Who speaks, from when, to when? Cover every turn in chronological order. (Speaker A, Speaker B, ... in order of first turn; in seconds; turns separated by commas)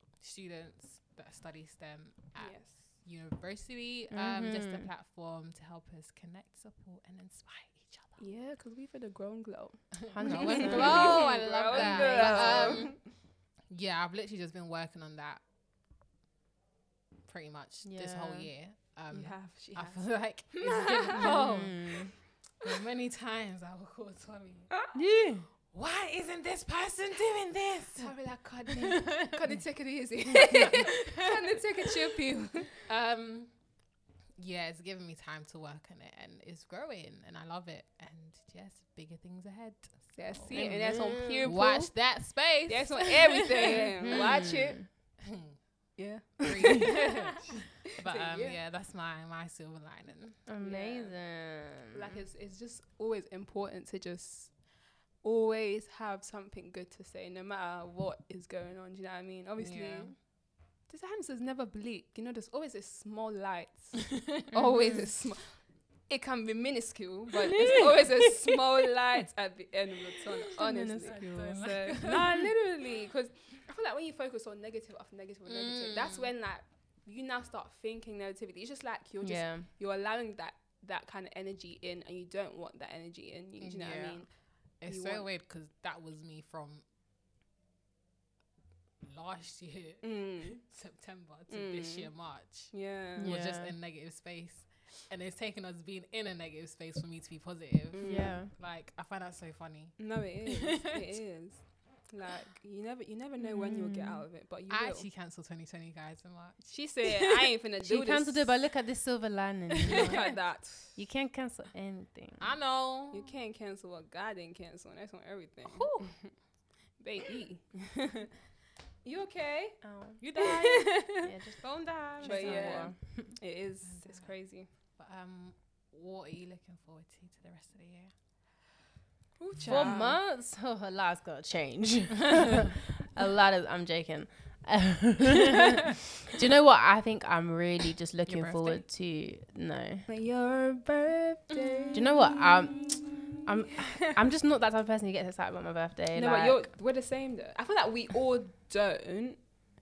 Speaker A: 0.2-8.2, Speaker B: 2.4-2.8, Speaker C: 4.1-4.9, Speaker B: 8.2-13.0, Speaker A: 10.0-13.1, Speaker C: 10.1-12.8, Speaker A: 13.7-15.4, Speaker A: 17.3-24.7, Speaker C: 17.8-18.5, Speaker B: 19.1-21.5, Speaker C: 21.2-22.1, Speaker C: 24.9-25.5, Speaker A: 25.7-28.1, Speaker B: 28.0-32.7, Speaker A: 28.7-29.5, Speaker A: 30.5-31.6, Speaker A: 32.9-33.5, Speaker A: 34.4-44.3, Speaker B: 40.1-42.0, Speaker C: 40.5-41.5, Speaker B: 42.7-44.8, Speaker C: 44.0-44.9, Speaker A: 45.2-45.6, Speaker B: 46.0-47.2, Speaker A: 46.4-50.4, Speaker B: 47.9-48.6, Speaker C: 50.5-52.2, Speaker B: 50.6-51.1, Speaker B: 51.9-54.5, Speaker B: 55.2-60.2, Speaker A: 59.6-60.1, Speaker B: 60.9-84.3, Speaker A: 64.2-64.4, Speaker C: 64.5-65.1, Speaker C: 67.5-68.3, Speaker C: 70.6-72.2, Speaker A: 71.0-72.4, Speaker A: 75.5-76.3, Speaker C: 79.2-79.7, Speaker A: 83.6-84.3, Speaker A: 84.8-86.8, Speaker B: 84.9-85.3, Speaker A: 89.0-101.0, Speaker B: 90.0-90.6, Speaker B: 91.5-93.3, Speaker C: 93.2-93.8, Speaker B: 97.9-98.4, Speaker C: 98.0-98.5, Speaker B: 100.0-105.1, Speaker C: 103.4-104.3, Speaker A: 104.7-107.5, Speaker B: 106.6-108.5, Speaker C: 107.8-112.5, Speaker A: 109.8-110.2, Speaker B: 109.8-111.0, Speaker A: 112.4-113.3, Speaker B: 113.1-116.3, Speaker A: 115.7-116.2, Speaker B: 117.0-118.3, Speaker B: 119.0-119.8, Speaker C: 119.8-120.2, Speaker A: 120.2-121.2, Speaker B: 120.3-121.2, Speaker C: 121.2-123.3, Speaker A: 122.1-122.9, Speaker B: 122.2-124.7, Speaker A: 123.8-124.3, Speaker A: 124.9-128.1, Speaker B: 129.4-130.2, Speaker A: 129.6-129.9, Speaker C: 129.7-140.1, Speaker A: 138.3-138.8, Speaker B: 140.1-144.1, Speaker A: 141.5-142.0, Speaker C: 141.9-146.7, Speaker B: 146.1-149.4